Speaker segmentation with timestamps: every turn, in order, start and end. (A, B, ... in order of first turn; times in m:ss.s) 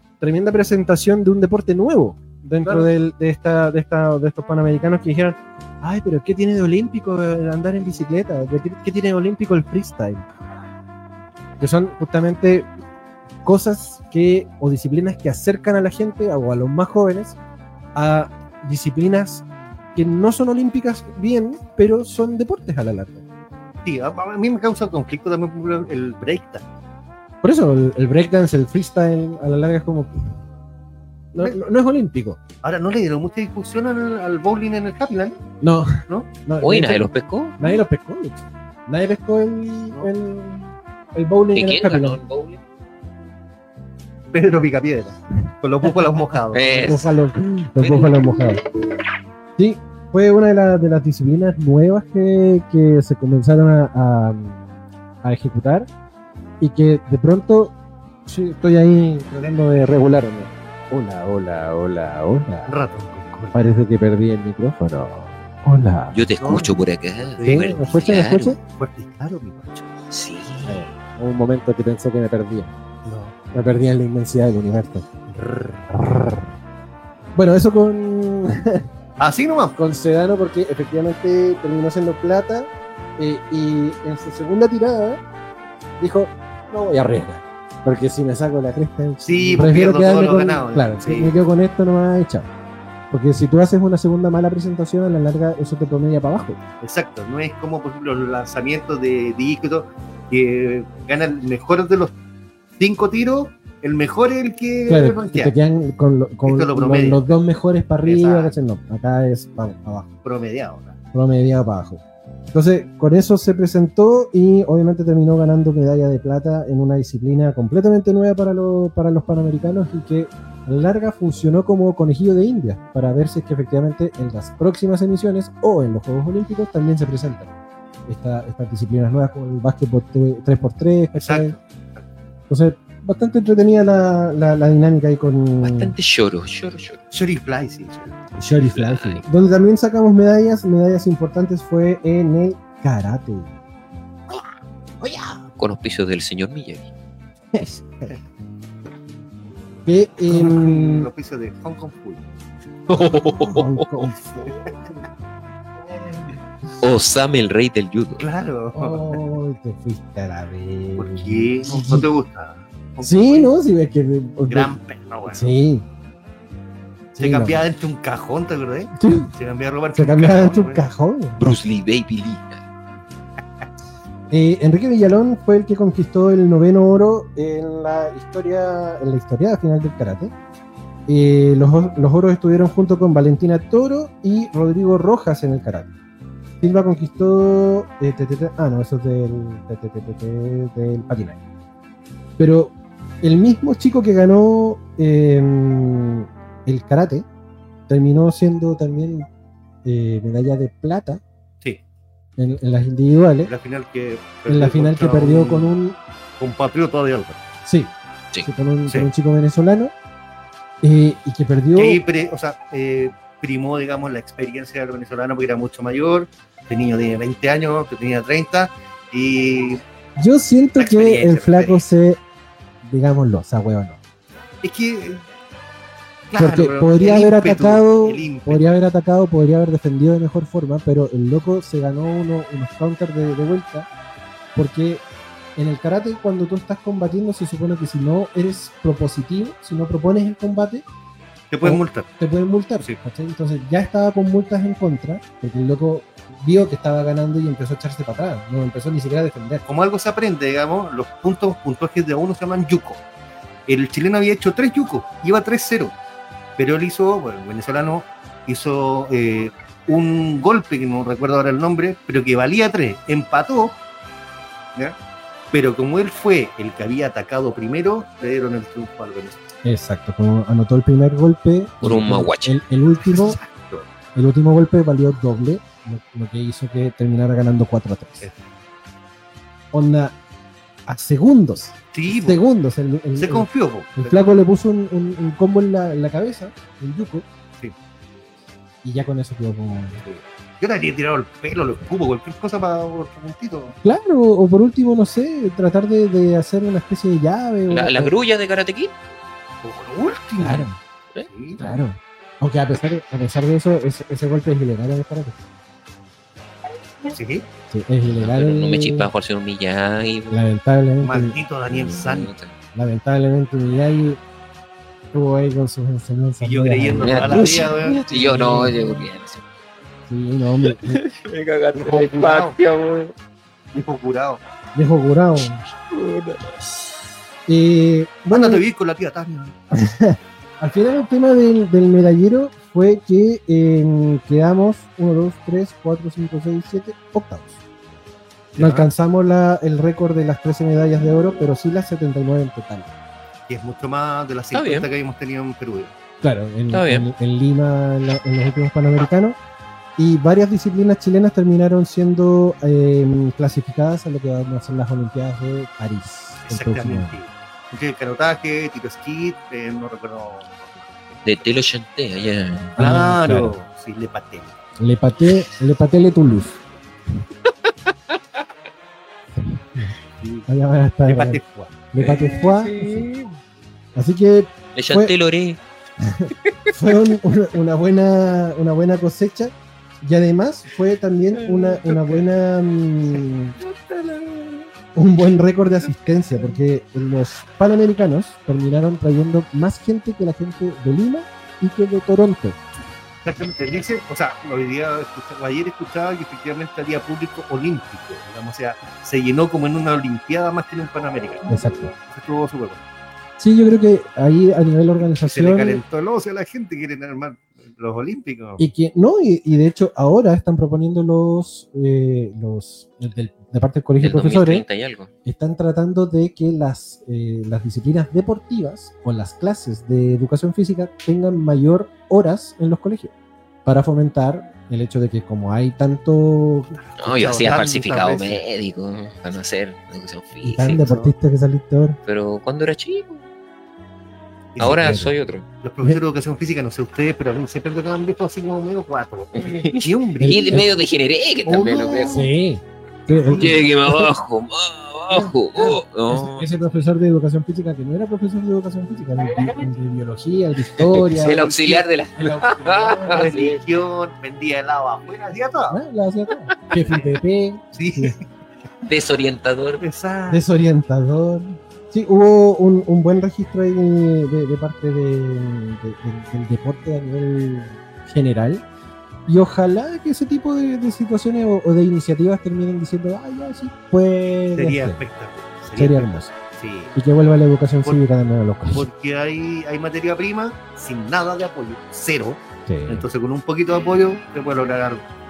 0:00.2-0:10.3 A
0:11.6-0:12.7 A
0:13.4-0:17.4 A
0:17.9-0:23.2 A
0:23.8-0:26.6 B
0:27.4-0:30.1 A
0:31.3-0:32.4 A
0:32.6-0:35.4 B
0:35.6-0:42.2 A
0:36.6-0:37.8 C
0:41.5-0:42.6 C
0:44.3-0:47.0 B
0:46.5-0:47.1 C
0:46.8-0:48.6 A
0:47.8-0:48.1 B
0:49.6-0:55.9 A
0:56.6-0:57.7 A
0:58.2-1:02.7 A
1:02.6-1:03.7 B
1:03.5-1:06.2 A
1:06.1-1:08.6 C
1:06.4-1:06.7 B
1:07.4-1:07.8 B
1:07.4-1:08.6 A
1:08.6-1:09.9 B
1:10.1-1:10.8 C
1:10.6-1:12.7 A
1:13.0-1:13.4 B
1:13.5-1:15.2 A
1:15.4-1:15.8 B
1:15.9-1:16.5 A
1:17.3-1:18.9 A
1:19.2-1:19.8 B
1:19.8-1:25.2 A
1:26.0-1:32.5 A
1:29.2-1:31.4 B
1:33.1-1:36.6 A
1:36.8-1:42.1 B
1:42.8-1:45.5 B
1:44.9-1:50.1 A
1:46.4-1:47.3 B
1:48.0-1:48.5 B
1:50.2-1:50.9 B
1:51.1-1:52.0 A
1:52.5-2:07.5 A
2:08.1-2:11.5 A
2:11.2-2:12.0 B
2:12.5-2:15.9 A
2:15.6-2:17.0 C
2:17.1-2:18.2 B
2:18.4-2:23.5 A
2:18.6-2:19.2 C
2:25.0-2:25.4 A
2:25.6-2:26.9 C
2:27.5-2:28.2 A
2:29.8-2:31.1 A
2:30.3-2:32.2 B
2:32.9-2:33.8 C
2:32.9-2:34.5 A
2:36.8-2:38.2 C
2:38.2-2:39.2 B
2:38.7-2:42.1 A
2:41.0-2:43.5 B
2:43.0-2:44.8 A
2:44.5-2:45.5 B
2:45.3-2:45.8 A
2:47.1-2:47.6 A
2:47.2-2:50.8 B
2:49.0-2:49.3 A
2:49.9-2:51.4 A
2:51.4-2:52.6 C
2:54.3-3:00.3 A
3:01.1-3:05.9 A
3:06.6-3:11.4 A
3:12.4-3:17.2 A
3:17.9-3:19.3 A
3:19.8-3:21.2 A
3:22.4-3:23.5 A
3:23.4-3:25.7 B
3:24.5-3:26.0 A
3:26.4-3:27.4 B
3:27.6-3:27.9 A
3:28.4-3:29.9 A
3:30.8-3:32.0 A
3:31.8-3:39.8 B
3:40.2-3:42.2 A
3:40.8-3:41.8 B
3:42.8-3:44.0 A
3:44.6-3:45.2 B
3:46.3-3:48.7 B
3:46.4-3:53.9 A
3:54.5-3:55.0 A
3:55.6-4:00.8 A
4:01.5-4:02.1 B
4:01.6-4:09.6 A
4:09.6-4:13.0 B
4:13.7-4:15.9 B
4:16.6-4:23.8 B
4:25.5-4:29.4 B
4:29.6-4:33.4 A
4:31.8-4:32.6 C
4:33.1-4:33.9 B
4:34.1-4:38.3 A
4:39.7-4:40.1 A
4:40.9-4:47.2 A
4:41.9-4:42.4 B
4:43.2-4:44.2 B
4:48.8-4:50.0 A
4:50.0-4:53.8 B
4:53.8-4:58.1 A
4:57.7-4:58.9 C
4:59.6-5:00.7 B
5:00.4-5:00.8 A
5:01.2-5:01.6 B
5:01.6-5:05.4 A
5:07.1-5:07.5 B
5:07.7-5:09.1 A
5:08.0-5:10.4 C
5:10.3-5:11.4 A
5:11.0-5:12.3 B
5:11.7-5:12.5 C
5:12.7-5:14.2 A
5:15.1-5:19.1 A
5:16.4-5:18.5 B
5:17.0-5:19.4 C
5:20.1-5:21.0 A
5:20.6-5:23.1 C
5:21.7-5:22.6 B
5:23.7-5:24.4 B
5:24.7-5:25.6 A
5:25.8-5:26.9 C
5:27.5-5:28.6 A
5:28.3-5:29.6 B
5:29.7-5:37.6 A
5:38.6-5:38.9 B
5:38.6-5:42.9 A
5:43.5-5:45.9 B
5:44.5-5:44.9 C
5:46.2-5:49.4 A
5:46.7-5:47.1 C
5:50.0-5:57.2 A
5:56.4-6:01.2 B
6:01.2-6:02.8 C
6:02.8-6:03.5 A
6:02.8-6:04.5 B
6:04.8-6:06.6 A
6:09.4-6:09.9 A
6:10.2-6:10.5 B
6:10.5-6:11.4 A
6:11.0-6:11.8 B
6:11.9-6:13.1 A
6:12.0-6:13.3 C
6:13.9-6:15.1 A
6:14.7-6:15.6 C
6:16.0-6:23.6 A
6:16.4-6:16.8 C
6:21.4-6:22.1 C
6:23.8-6:24.6 C
6:24.9-6:32.6 A
6:33.2-6:41.5 B
6:41.5-6:41.9 A
6:42.0-6:42.8 B
6:43.4-6:45.8 A
6:45.2-6:48.6 B
6:48.6-6:54.6 A
6:54.0-6:55.1 C
6:55.2-7:03.1 A
7:03.6-7:06.8 A
7:07.0-7:08.4 B
7:07.0-7:11.0 C
7:10.4-7:12.0 A
7:10.8-7:11.1 B
7:12.0-7:13.2 C
7:14.5-7:15.1 B
7:14.6-7:15.4 C
7:14.8-7:15.1 A
7:15.6-7:20.7 B
7:19.3-7:22.3 C
7:20.2-7:20.7 A
7:21.4-7:22.3 B
7:22.1-7:24.1 A
7:23.2-7:26.5 C
7:25.1-7:31.5 A
7:30.8-7:33.6 C
7:31.2-7:31.8 B
7:32.2-7:33.3 A
7:33.0-7:35.8 B
7:35.7-7:38.1 A
7:37.7-7:38.2 B
7:38.8-7:39.8 C
7:39.8-7:40.4 B
7:40.3-7:48.6 A
7:49.3-7:55.0 A
7:54.5-7:57.0 B
7:55.8-7:56.3 A
7:56.9-7:58.9 A
7:58.7-8:05.0 B
8:02.7-8:03.1 A